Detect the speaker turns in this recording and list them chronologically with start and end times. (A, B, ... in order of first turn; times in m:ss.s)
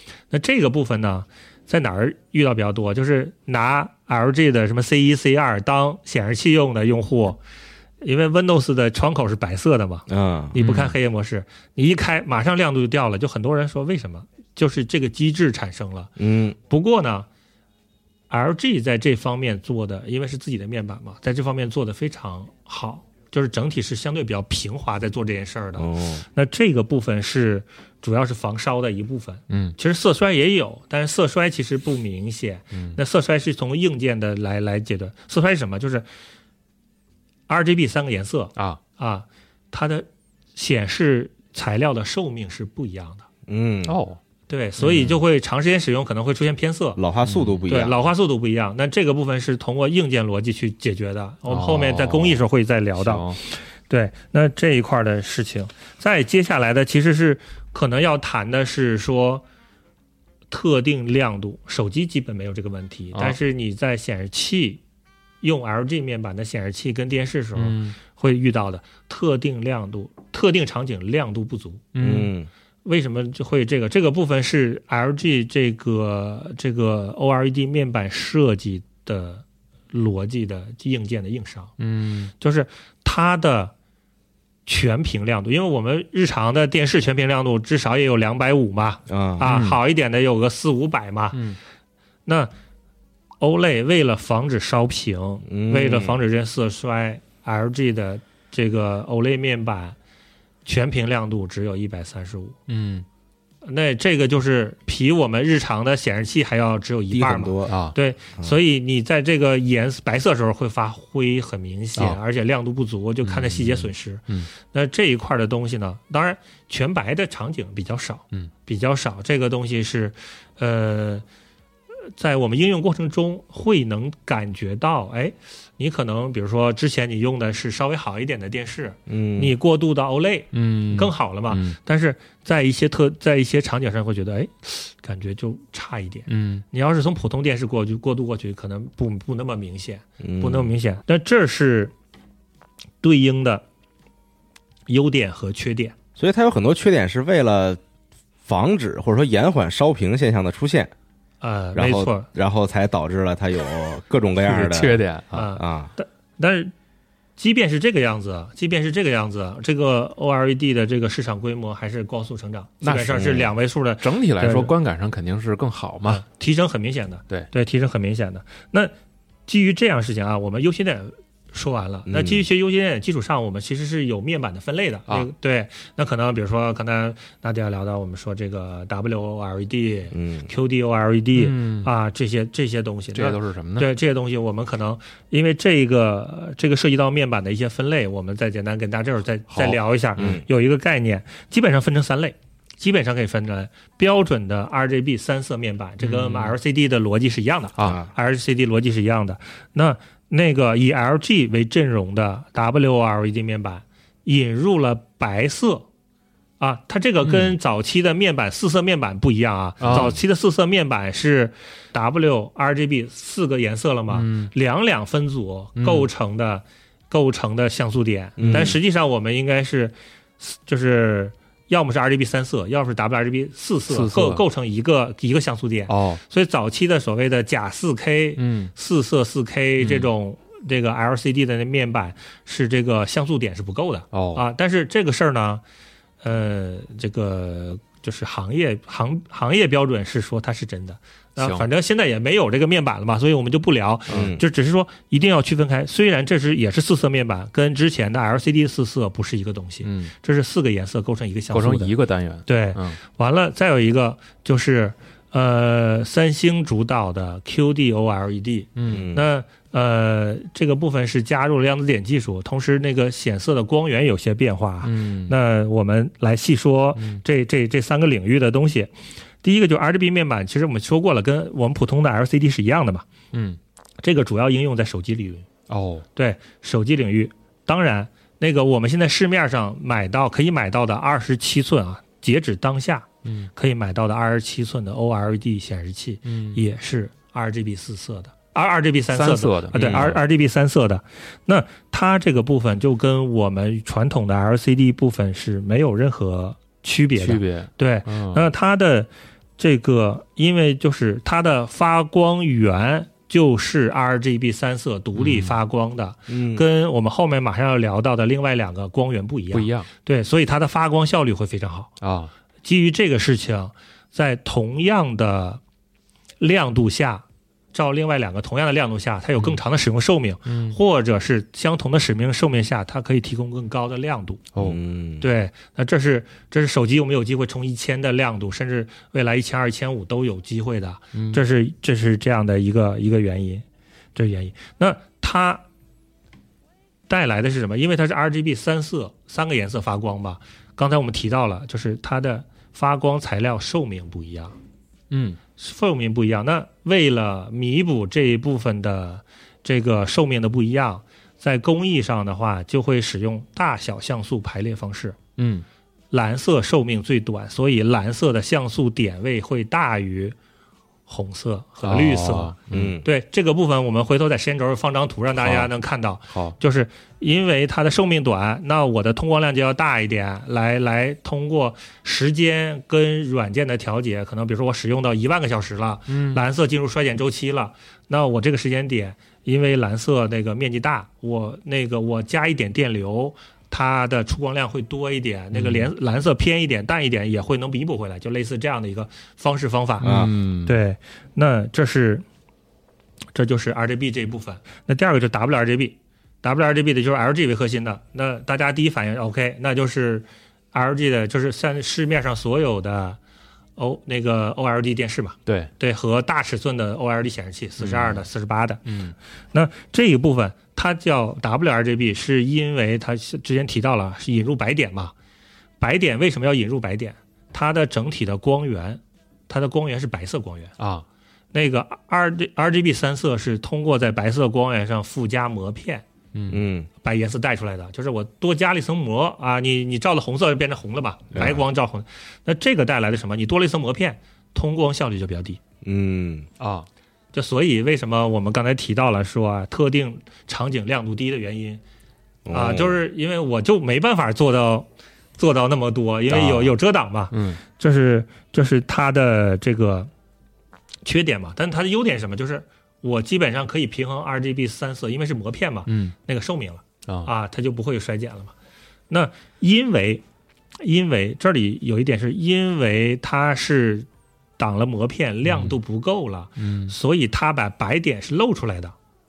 0:00.3-0:07.4 A
0:08.0-0:16.1 A
0:10.1-0:10.5 B
0:10.6-0:10.9 C
0:16.2-0:16.5 B
0:16.7-0:17.3 A
0:18.3-0:36.1 A
0:25.8-0:26.2 B
0:29.5-0:29.8 C
0:32.7-0:33.0 C
0:37.5-0:43.2 A
0:43.5-0:43.9 B
0:43.8-0:44.2 C
0:44.5-0:47.0 A
0:44.8-0:45.2 C
0:47.0-0:48.0 B
0:47.2-0:47.6 C
0:47.7-0:59.4 A
0:51.5-0:52.4 C
0:53.0-0:53.4 C
1:00.5-1:04.8 A
1:05.4-1:11.9 A
1:07.6-1:07.9 C
1:11.9-1:12.3 C
1:12.0-1:12.5 B
1:12.8-1:21.7 A
1:21.8-1:22.3 C
1:22.4-1:23.7 A
1:24.6-1:31.4 A
1:29.1-1:29.4 B
1:29.4-1:29.8 C
1:32.2-1:32.5 A
1:33.4-1:40.0 A
1:35.5-1:36.2 B
1:40.6-1:42.6 A
1:42.7-1:43.0 C
1:43.6-2:01.2 A
1:47.1-1:47.8 B
1:47.7-1:47.9 C
1:53.2-1:54.5 C
2:02.1-2:21.9 A
2:09.1-2:09.5 B
2:10.5-2:11.8 C
2:16.3-2:16.6 C
2:20.2-2:20.7 B
2:23.0-2:23.6 A
2:24.9-2:25.9 A
2:26.2-2:27.8 B
2:28.4-2:30.9 B
2:31.4-2:32.3 A
2:31.7-2:35.0 B
2:34.4-2:35.5 C
2:35.3-2:36.7 A
2:35.6-2:35.9 B
2:37.4-2:44.7 A
2:42.8-2:46.2 C
2:46.0-2:48.9 A
2:49.5-3:25.8 A
2:52.0-2:52.4 B
3:00.1-3:00.5 B
3:01.3-3:01.9 C
3:03.1-3:03.9 C
3:09.5-3:10.4 C
3:10.2-3:10.4 B
3:16.0-3:16.5 C
3:17.8-3:18.1 B
3:26.6-3:55.6 A
3:27.2-3:27.5 C
3:29.8-3:30.1 C
3:29.9-3:30.1 B
3:34.1-3:34.5 C
3:35.8-3:36.1 C
3:38.4-3:38.8 B
3:38.4-3:38.7 C
3:43.9-3:44.4 C
3:45.9-3:46.2 C
3:48.4-3:48.7 C
3:49.8-3:50.1 C
3:54.1-3:54.4 C
3:56.2-4:11.9 A
4:01.4-4:01.7 C
4:04.1-4:04.3 C
4:04.1-4:04.4 B
4:09.8-4:10.1 C
4:11.5-4:13.0 C
4:12.4-4:28.9 A
4:18.8-4:19.0 C
4:18.9-4:19.2 B
4:24.8-4:25.4 C
4:27.0-4:27.2 C
4:29.4-4:33.0 A
4:33.3-4:33.6 C
4:34.0-4:35.4 A
4:35.7-4:36.0 C
4:36.2-5:11.9 A
4:43.2-4:43.5 C
4:46.2-4:46.6 C
4:49.1-4:50.2 C
4:49.7-4:50.1 B
4:57.2-4:58.5 C
5:05.2-5:05.6 C
5:06.3-5:06.6 B
5:09.5-5:09.9 C
5:12.0-5:12.3 C
5:12.6-5:15.6 A
5:16.4-5:24.4 A
5:20.5-5:20.8 C
5:24.5-5:24.8 C
5:24.6-5:25.2 B
5:25.2-5:33.6 A
5:31.1-5:31.4 C
5:34.2-5:35.6 A
5:37.1-5:44.6 A
5:45.1-5:45.4 C
5:45.6-5:55.2 A
5:55.4-5:55.6 C
5:56.1-6:00.3 A
6:01.1-6:30.1 A
6:01.8-6:03.0 C
6:02.7-6:03.0 B
6:05.4-6:05.7 C
6:06.3-6:06.6 C
6:16.1-6:16.4 C
6:25.5-6:25.9 C
6:30.0-6:30.8 C
6:30.0-6:30.3 B
6:30.6-6:32.2 A
6:33.3-6:43.2 A
6:43.8-6:48.8 A
6:45.4-6:45.7 C
6:47.8-6:48.2 C
6:48.8-6:49.1 C
6:49.5-6:55.1 A
6:55.8-7:00.7 A
7:00.8-7:01.0 C
7:01.5-7:06.0 A
7:06.3-7:06.6 C
7:06.5-7:06.9 B
7:07.0-7:15.6 A
7:11.3-7:11.6 B
7:15.8-7:16.5 B
7:16.6-7:16.9 C
7:17.3-7:21.8 A
7:22.4-7:23.0 B
7:22.5-7:24.9 A
7:25.4-7:30.1 A
7:26.3-7:26.7 B
7:27.3-7:27.6 C
7:31.0-7:38.5 A
7:35.9-7:36.1 C
7:39.1-7:40.2 A
7:40.8-7:44.1 A
7:44.6-7:48.9 A
7:45.4-7:45.8 C
7:46.6-7:46.9 C